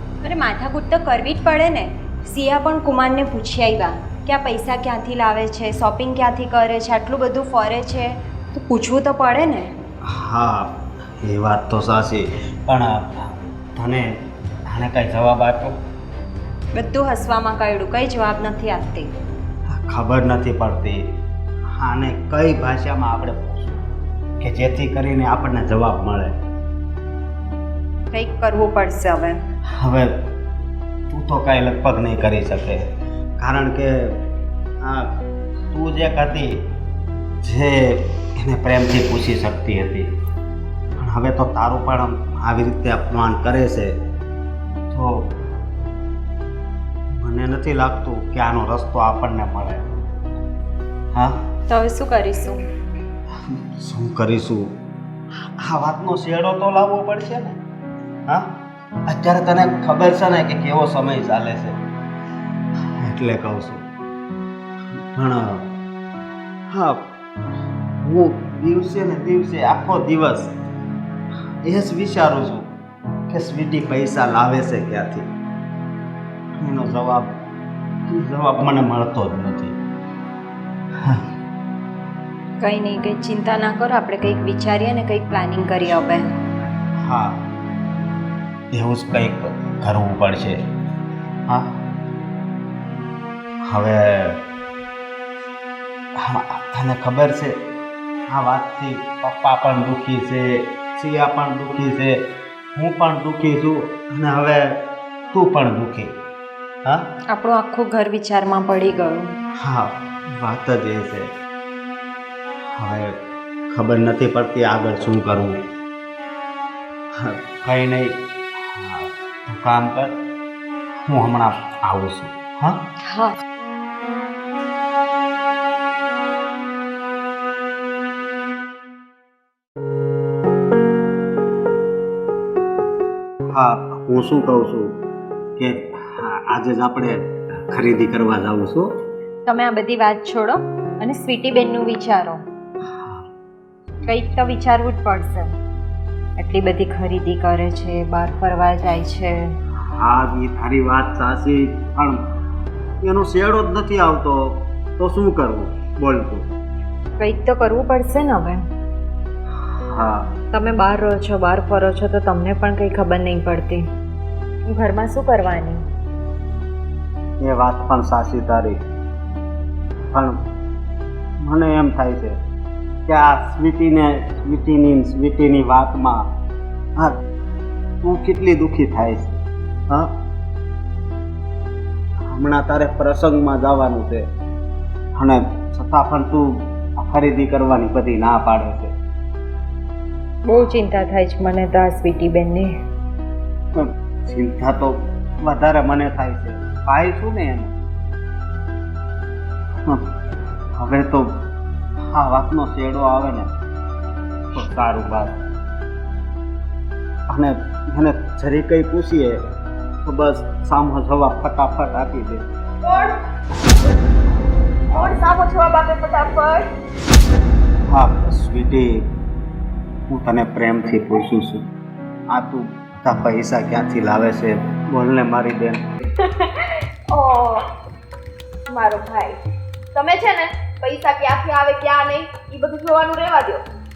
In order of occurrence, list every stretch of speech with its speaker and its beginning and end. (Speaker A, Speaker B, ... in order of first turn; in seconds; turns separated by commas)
Speaker A: 0.2-9.7, Speaker B: 10.1-15.8, Speaker A: 16.7-19.1, Speaker B: 19.7-21.0, Speaker B: 21.8-23.8, Speaker B: 24.4-26.4, Speaker A: 28.1-29.4, Speaker B: 29.8-30.1, Speaker B: 31.1-34.2, Speaker B: 34.8-35.1, Speaker B: 35.7-36.7, Speaker B: 37.4-40.1, Speaker B: 41.0-43.9, Speaker B: 44.9-45.4, Speaker B: 47.2-49.9, Speaker B: 51.1-51.5, Speaker A: 51.7-52.6, Speaker B: 53.5-54.7, Speaker B: 55.6-57.6, Speaker B: 59.1-61.8, Speaker B: 62.9-63.9, Speaker B: 65.0-65.7, Speaker B: 66.7-67.1, Speaker B: 68.0-70.5, Speaker B: 71.6-72.7, Speaker B: 73.3-75.3, Speaker B: 76.6-77.4, Speaker B: 78.1-79.8, Speaker A: 82.6-86.3, Speaker B: 87.0-87.4, Speaker B: 88.7-90.6, Speaker B: 91.5-91.8, Speaker B: 93.7-94.4, Speaker B: 96.2-97.6, Speaker B: 98.3-102.2, Speaker B: 102.8-106.1, Speaker A: 107.3-109.3, Speaker B: 109.6-111.3, Speaker B: 112.8-113.2, Speaker B: 113.7-115.6, Speaker B: 117.2-120.2, Speaker B: 121.1-122.8, Speaker A: 123.1-123.4, Speaker B: 133.5-135.0, Speaker B: 135.6-139.0, Speaker A: 139.5-142.4, Speaker B: 142.9-143.2, Speaker A: 144.1-145.5, Speaker A: 146.4-149.4, Speaker B: 149.9-152.2, Speaker B: 153.0-156.4, Speaker A: 157.2-158.6, Speaker B: 159.9-160.3, Speaker A: 160.5-163.8, Speaker A: 164.7-165.8, Speaker B: 167.4-168.8, Speaker B: 170.1-170.4, Speaker B: 171.4-172.4, Speaker B: 173.1-176.3, Speaker B: 178.0-179.4, Speaker B: 179.9-180.2, Speaker B: 182.3-184.3, Speaker B: 185.2-188.9, Speaker A: 190.4-192.8, Speaker B: 193.8-197.7, Speaker B: 200.8-201.4, Speaker B: 202.1-203.5, Speaker B: 204.5-205.4, Speaker B: 207.3-209.4, Speaker B: 210.0-212.5, Speaker C: 212.8-213.1, Speaker C: 214.9-216.7, Speaker B: 217.9-219.1, Speaker B: 220.1-221.7, Speaker B: 222.3-225.8, Speaker C: 226.2-226.5, Speaker C: 227.1-227.6, Speaker C: 228.7-229.4, Speaker C: 229.9-233.6